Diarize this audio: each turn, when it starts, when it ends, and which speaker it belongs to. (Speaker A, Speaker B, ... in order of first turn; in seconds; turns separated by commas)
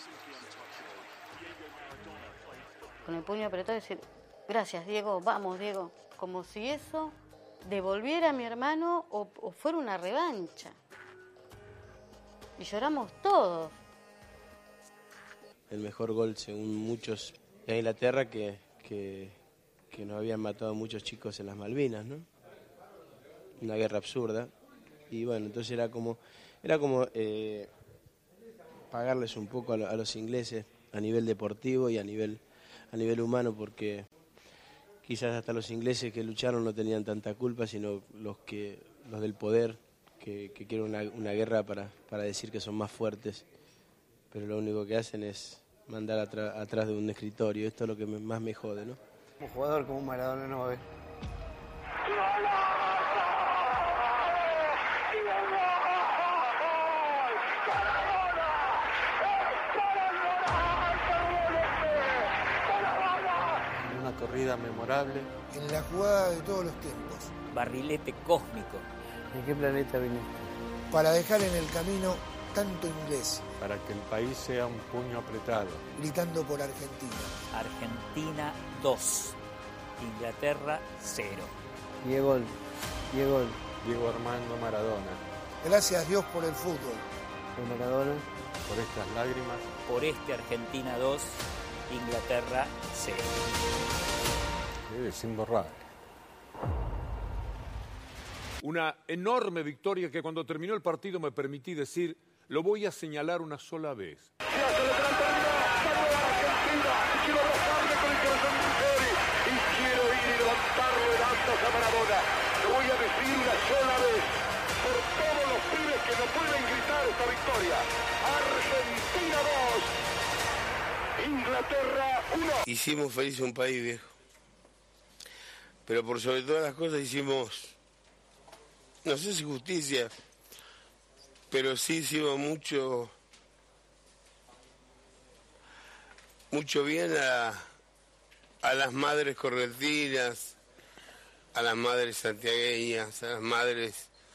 Speaker A: 3.0-10.8, Speaker A: 12.6-13.8, Speaker B: 15.7-19.4, Speaker B: 19.9-22.2, Speaker B: 23.6-24.5, Speaker B: 25.1-27.7, Speaker B: 28.9-34.1, Speaker B: 35.0-43.5, Speaker B: 44.3-49.0, Speaker C: 49.4-50.8, Speaker D: 63.8-65.3, Speaker E: 65.5-67.3, Speaker F: 67.5-68.8, Speaker C: 69.3-70.3, Speaker E: 70.9-73.4, Speaker D: 73.6-75.8, Speaker E: 76.0-77.3, Speaker F: 77.5-79.3, Speaker F: 80.0-81.5, Speaker C: 82.0-82.5, Speaker C: 83.1-83.6, Speaker D: 83.8-85.2, Speaker E: 85.6-87.0, Speaker C: 87.5-88.2, Speaker D: 88.7-89.6, Speaker F: 89.9-93.3, Speaker D: 94.9-95.8, Speaker G: 98.8-104.2, Speaker H: 104.6-114.3, Speaker H: 114.9-119.9, Speaker H: 121.2-122.6, Speaker I: 122.7-124.1, Speaker I: 125.8-127.8, Speaker I: 129.0-130.1, Speaker I: 131.5-133.1, Speaker I: 136.5-137.6, Speaker I: 138.6-140.6, Speaker I: 141.5-144.1